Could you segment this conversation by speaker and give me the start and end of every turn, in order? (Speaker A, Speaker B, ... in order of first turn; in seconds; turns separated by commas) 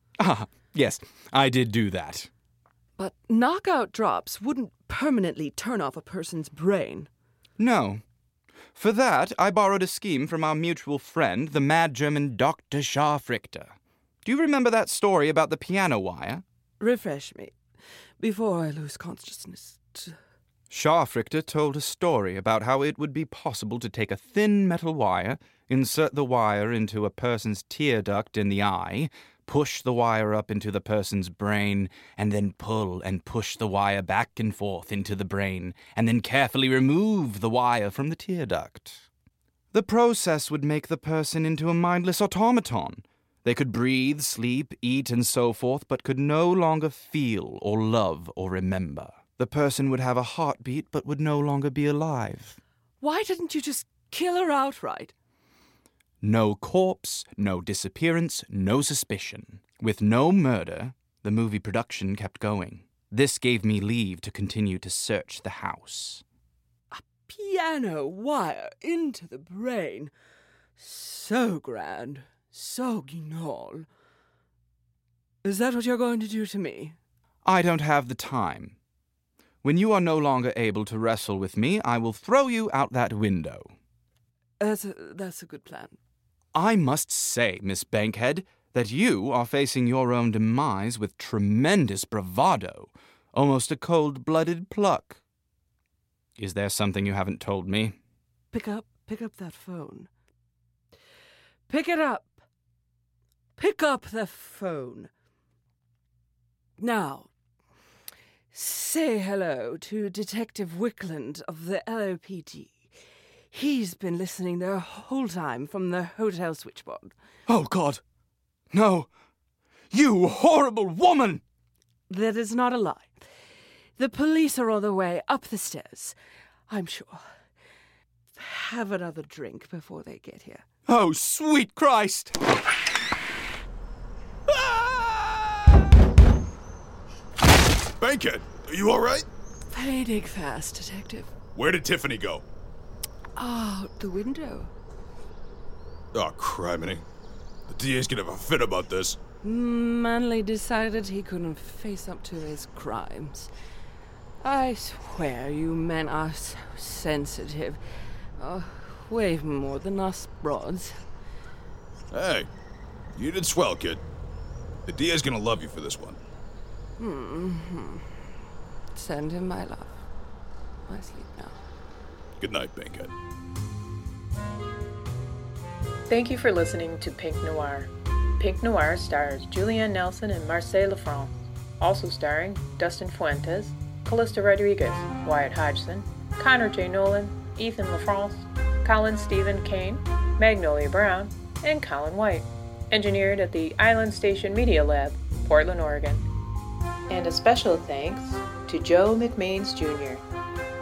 Speaker A: 0.2-2.3, Speaker B: 3.0-7.1, Speaker A: 7.6-8.0, Speaker A: 8.7-13.7, Speaker A: 14.2-16.4, Speaker B: 16.8-17.5, Speaker B: 18.2-20.1, Speaker A: 20.7-39.0, Speaker A: 39.7-52.6, Speaker B: 53.0-55.1, Speaker A: 56.2-66.2, Speaker B: 66.9-70.1, Speaker B: 70.8-73.9, Speaker B: 75.4-77.0, Speaker A: 77.4-78.8, Speaker A: 79.6-83.7, Speaker B: 84.6-86.0, Speaker A: 86.5-95.2, Speaker A: 96.4-98.0, Speaker B: 98.5-100.1, Speaker B: 101.7-102.4, Speaker B: 103.6-105.1, Speaker B: 106.8-107.3, Speaker B: 108.5-112.8, Speaker B: 113.5-117.1, Speaker A: 117.5-118.0, Speaker A: 118.7-119.1, Speaker A: 119.9-121.4, Speaker B: 122.1-123.1, Speaker B: 124.0-126.2, Speaker B: 126.7-127.2, Speaker B: 128.3-130.6, Speaker A: 130.9-132.3, Speaker C: 138.0-139.3, Speaker B: 139.7-141.3, Speaker C: 141.5-142.4, Speaker B: 143.3-144.7, Speaker C: 146.1-147.0, Speaker C: 147.7-149.2, Speaker B: 149.4-153.5, Speaker B: 154.4-157.8, Speaker B: 158.4-160.9, Speaker C: 162.1-162.5, Speaker C: 163.1-164.0, Speaker C: 164.9-166.2, Speaker B: 167.0-168.1, Speaker B: 168.9-170.0, Speaker B: 170.9-171.6, Speaker C: 172.4-173.1, Speaker D: 176.1-177.9, Speaker D: 178.4-196.2, Speaker D: 197.1-200.2